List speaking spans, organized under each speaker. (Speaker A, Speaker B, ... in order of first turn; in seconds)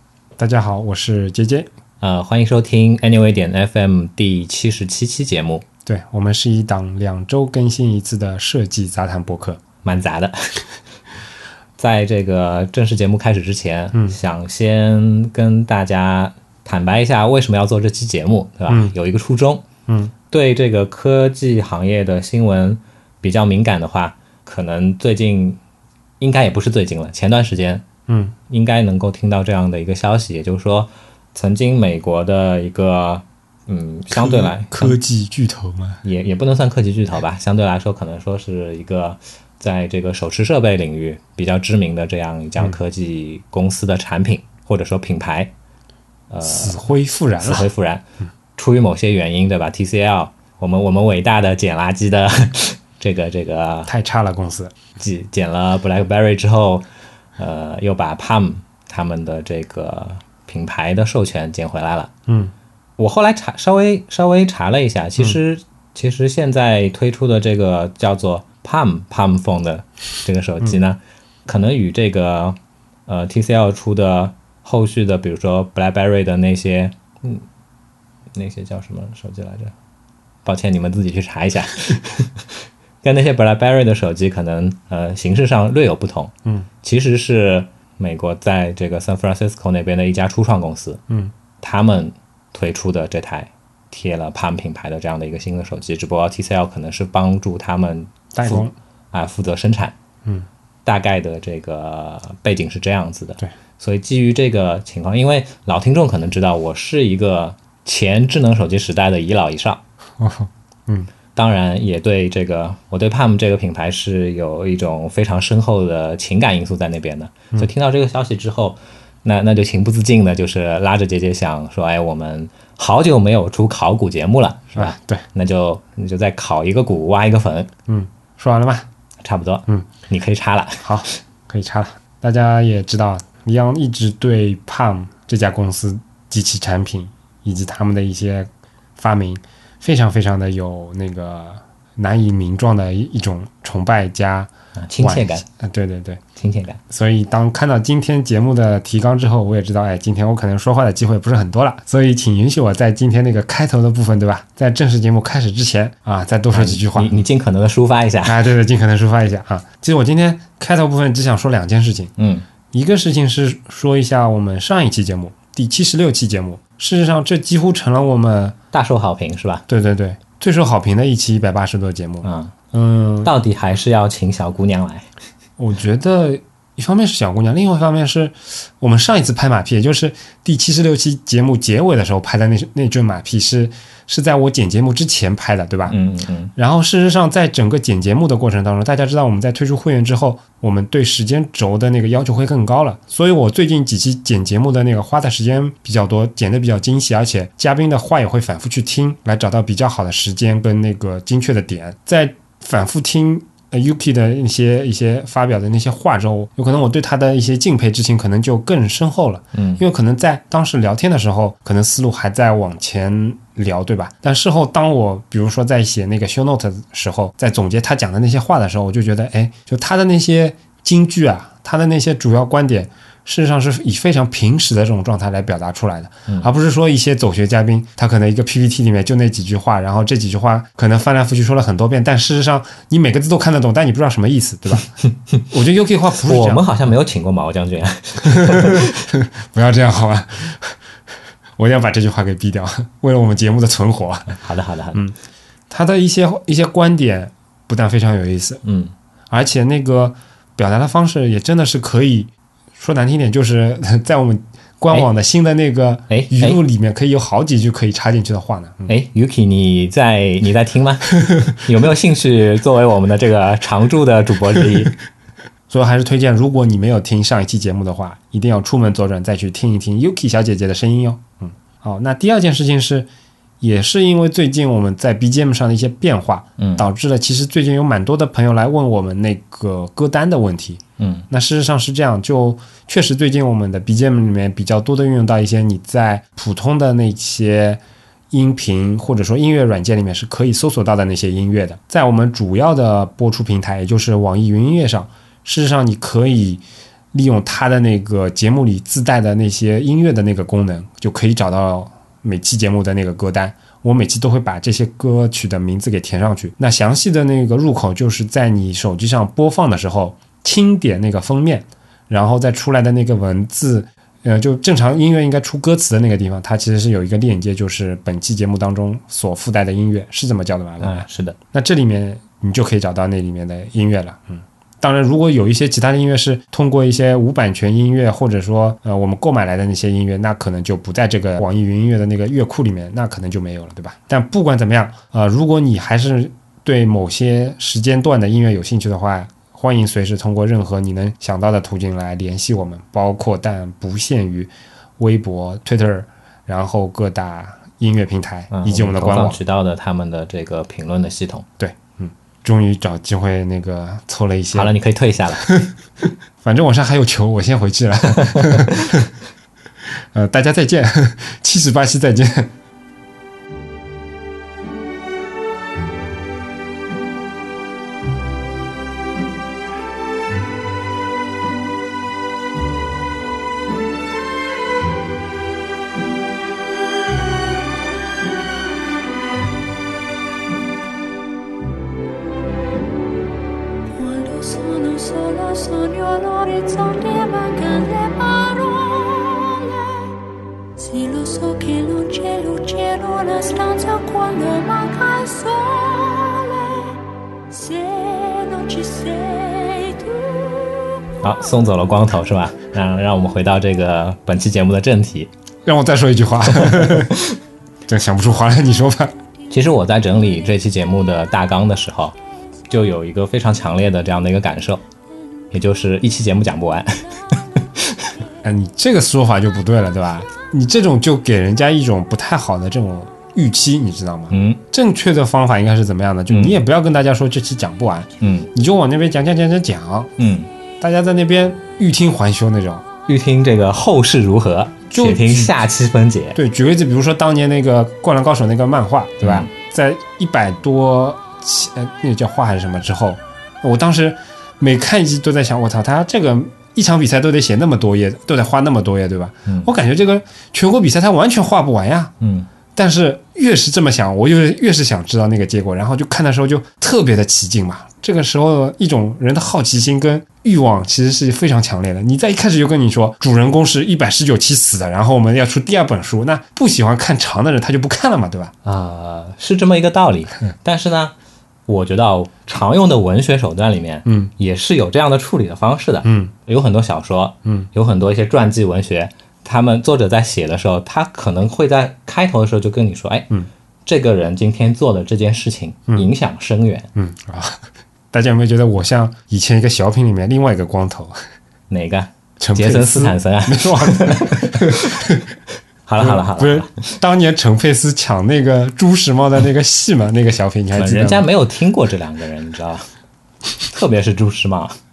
Speaker A: 0.4-1.7, 5.8-9.6, 18.7-18.9, 19.9-20.1, 28.1-28.3, 34.1-36.0, 46.5-47.7, 53.9-54.7, 62.3-62.5, 98.3-98.7, 110.2-111.1, 124.7-125.2, 127.9-128.9, 130.8-146.2, 146.9-157.1, 158.2-162.1, 162.7-168.6, 169.7-173.3, 175.6-186.0, 186.6-234.9, 235.5-236.7, 238.2-240.8, 241.6-244.3, 245.7-248.6, 249.3-258.9, 265.7-273.1, 273.6-349.4, 351.6-354.7, 355.4-359.1, 360.1-362.5, 405.6-407.2, 407.9-409.1, 418.4-430.1, 430.8-432.8, 434.9-435.5, 436.3-452.1, 452.7-468.5, 474.1-474.3, 476.0-476.3, 486.9-491.1, 492.4-495.3, 496.0-501.2
Speaker B: 2.0-5.6, 9.8-10.6, 11.8-19.6, 20.3-25.6, 26.2-27.9, 28.5-35.0, 36.0-45.5, 46.3-46.8, 47.4-48.0, 48.5-53.9, 55.0-56.8, 57.4-62.1, 63.0-77.5, 78.3-79.7, 80.4-91.0, 91.6-99.9, 100.8-109.8, 111.3-127.7, 129.2-131.0, 144.8-145.4, 146.4-146.8, 156.5-158.4, 162.2-162.5, 168.7-169.6, 172.2-172.5, 173.2-175.1, 185.9-186.5, 209.5-209.8, 236.2-239.1, 244.3-245.0, 248.6-248.9, 256.1-256.6, 258.9-264.9, 276.6-276.9, 281.0-281.2, 320.8-321.4, 348.5-351.4, 354.5-355.5, 401.2-405.3, 406.6-407.4, 409.5-412.1, 412.7-414.8, 415.5-418.0, 424.3-424.6, 426.3-426.6, 428.2-428.5, 430.2-430.5, 433.1-436.4, 439.2-439.5, 452.2-452.5, 468.6-471.1, 471.7-483.3, 483.8-486.9, 491.7-495.1, 495.9-497.0, 500.8-502.9, 503.6-504.8
Speaker C: 383.9-390.1, 390.8-396.9, 397.5-401.0